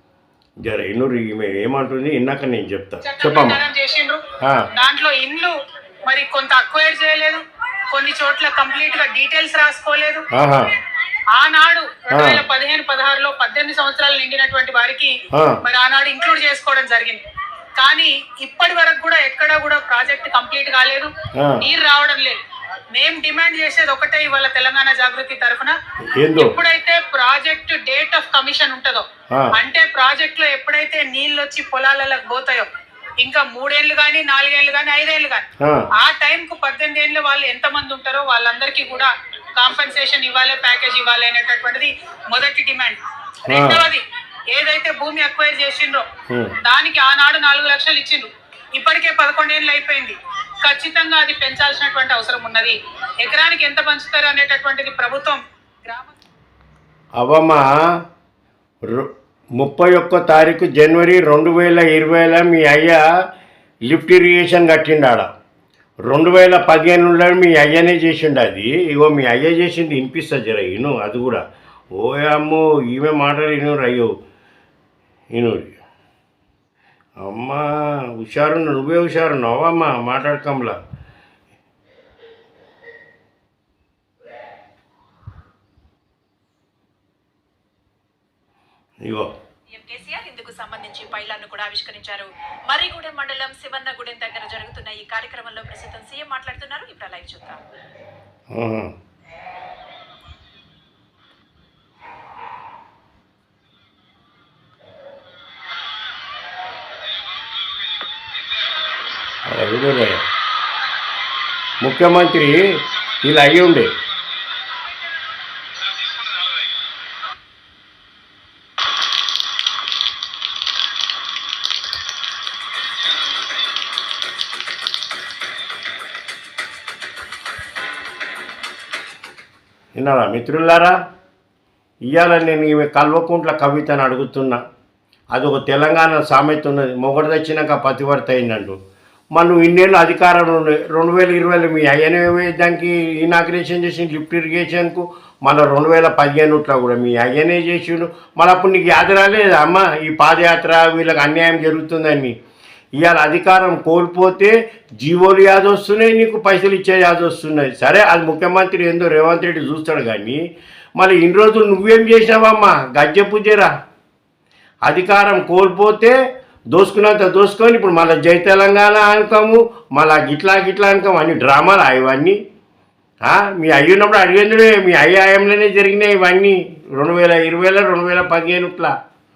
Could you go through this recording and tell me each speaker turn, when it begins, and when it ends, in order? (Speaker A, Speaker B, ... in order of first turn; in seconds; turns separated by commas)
Speaker A: 0.7-3.6, Speaker B: 3.0-4.2, Speaker B: 4.7-5.5, Speaker B: 6.1-10.2, Speaker A: 10.3-10.7, Speaker B: 11.3-17.2, Speaker A: 12.1-12.4, Speaker A: 15.3-15.6, Speaker B: 17.8-22.4, Speaker A: 21.4-21.6, Speaker B: 22.9-25.8, Speaker A: 26.1-26.5, Speaker B: 26.4-32.7, Speaker B: 33.2-46.1, Speaker A: 35.6-35.9, Speaker A: 43.5-43.8, Speaker B: 46.6-56.2, Speaker A: 57.2-57.6, Speaker A: 58.9-63.0, Speaker A: 63.9-65.3, Speaker A: 66.1-71.4, Speaker A: 72.0-74.1, Speaker A: 75.3-75.8, Speaker A: 77.2-80.8, Speaker C: 89.8-97.6, Speaker A: 98.5-98.9, Speaker A: 109.5-110.2, Speaker A: 111.8-113.9, Speaker A: 129.9-130.9, Speaker A: 132.1-134.6, Speaker A: 135.3-138.8, Speaker A: 139.3-152.3, Speaker A: 153.0-160.4, Speaker A: 161.0-163.7, Speaker A: 164.9-166.2, Speaker A: 166.7-172.4, Speaker A: 173.2-178.9